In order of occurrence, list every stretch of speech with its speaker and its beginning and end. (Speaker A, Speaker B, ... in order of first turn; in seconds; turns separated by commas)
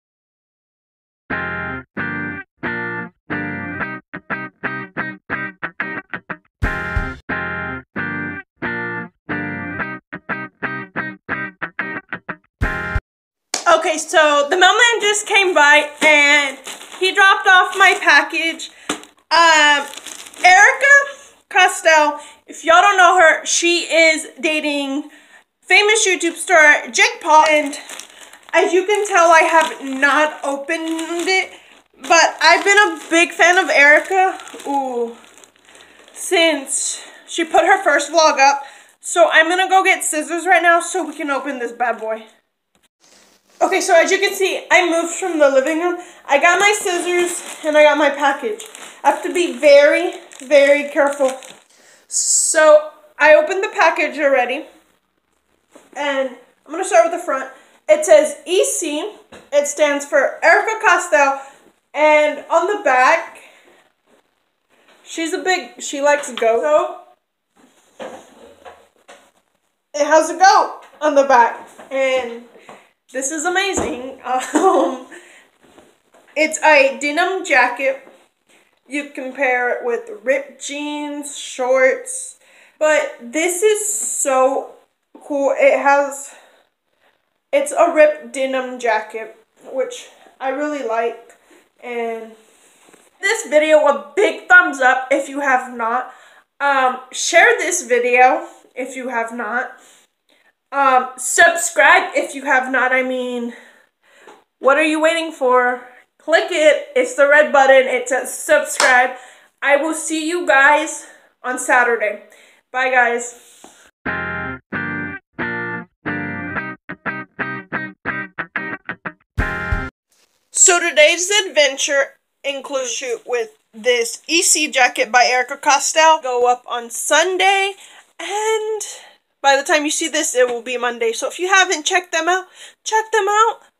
Speaker A: 13.7-18.7, Speaker A: 19.3-19.9, Speaker A: 20.4-25.1, Speaker A: 25.6-27.8, Speaker A: 28.5-31.5, Speaker A: 32.0-35.2, Speaker A: 36.1-42.2, Speaker A: 43.6-51.4, Speaker A: 52.1-54.6, Speaker A: 55.9-61.4, Speaker A: 61.9-63.4, Speaker A: 65.0-67.0, Speaker A: 69.9-72.5, Speaker A: 73.1-75.1, Speaker A: 76.3-78.0, Speaker A: 78.9-86.3, Speaker A: 87.5-92.3, Speaker A: 93.2-99.7, Speaker A: 100.7-103.5, Speaker A: 104.6-113.4, Speaker A: 120.5-128.9, Speaker A: 129.4-133.6